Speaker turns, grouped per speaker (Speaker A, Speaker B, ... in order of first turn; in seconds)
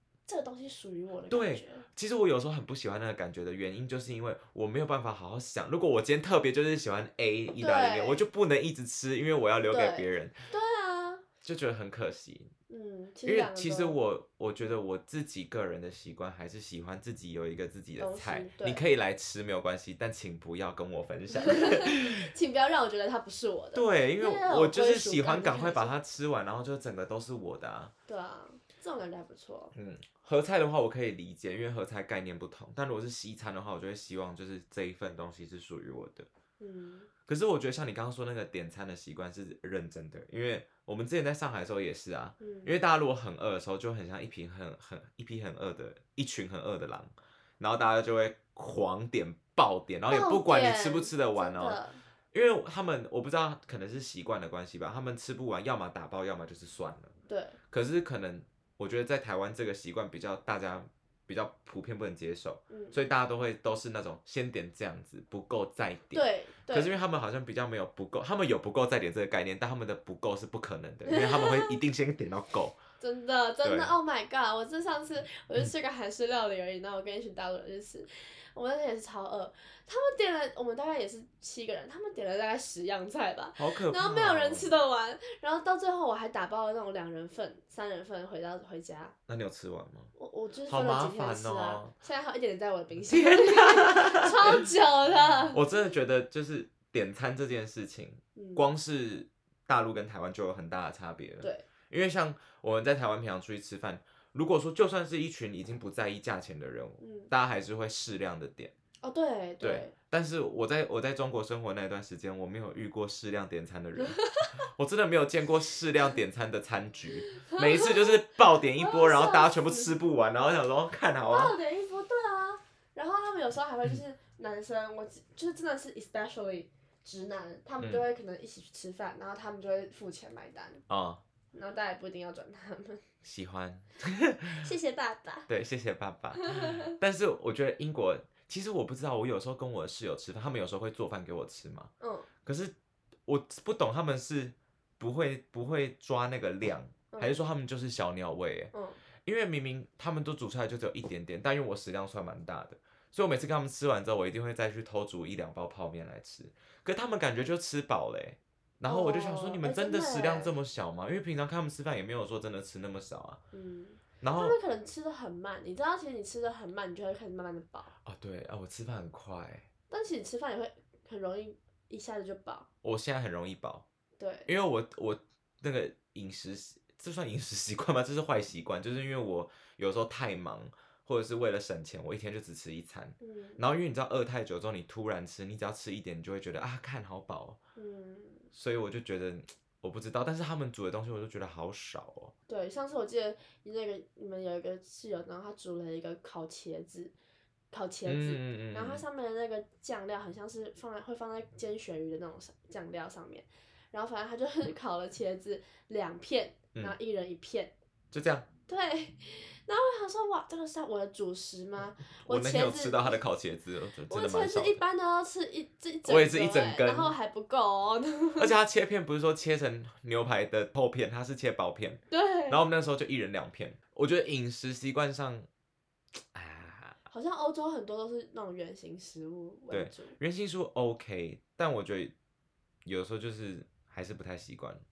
Speaker A: 0.3-1.9, 7.6-8.2, 9.7-11.2, 12.7-14.0, 18.0-18.8, 21.3-25.9, 28.1-29.7, 36.6-37.1, 42.4-42.8, 50.1-52.0, 57.3-57.6, 62.7-63.1, 66.1-66.9, 71.1-71.7, 73.0-89.1, 90.2-95.6, 98.3-98.6, 107.0-107.3, 109.0-109.9, 114.0-114.5, 117.3-118.2, 118.7-120.0, 121.2-130.8, 131.5-133.0, 134.6-135.5, 136.4-136.9, 142.0-142.3, 147.1-147.4, 148.7-149.0, 158.8-160.5, 163.5-167.9, 169.9-172.7, 174.2-174.5, 183.2-183.6, 187.8-188.5, 192.5-197.1, 197.7-207.7, 208.7-213.2, 214.1-218.5, 222.1-222.6, 227.1-230.1
Speaker B: 1.3-10.3, 11.4-12.5, 13.2-22.2, 23.7-27.9, 29.7-36.3, 37.3-51.8, 52.3-57.1, 57.7-72.8, 73.6-73.9, 83.6-84.8, 89.3-90.1, 90.7-91.9, 93.1-94.7, 95.5-108.7, 109.6-121.5, 127.8-128.0, 130.9-131.2, 133.2-134.7, 135.5-141.9, 142.4-142.7, 143.2-148.7, 149.2-163.4, 164.2-164.6, 168.0-169.7, 172.8-173.8, 174.5-187.6, 188.5-192.3, 198.0-199.0, 208.1-208.5, 212.2-214.8, 216.0-217.1, 218.4-225.5, 226.2-227.0, 229.7-232.1, 232.8-234.8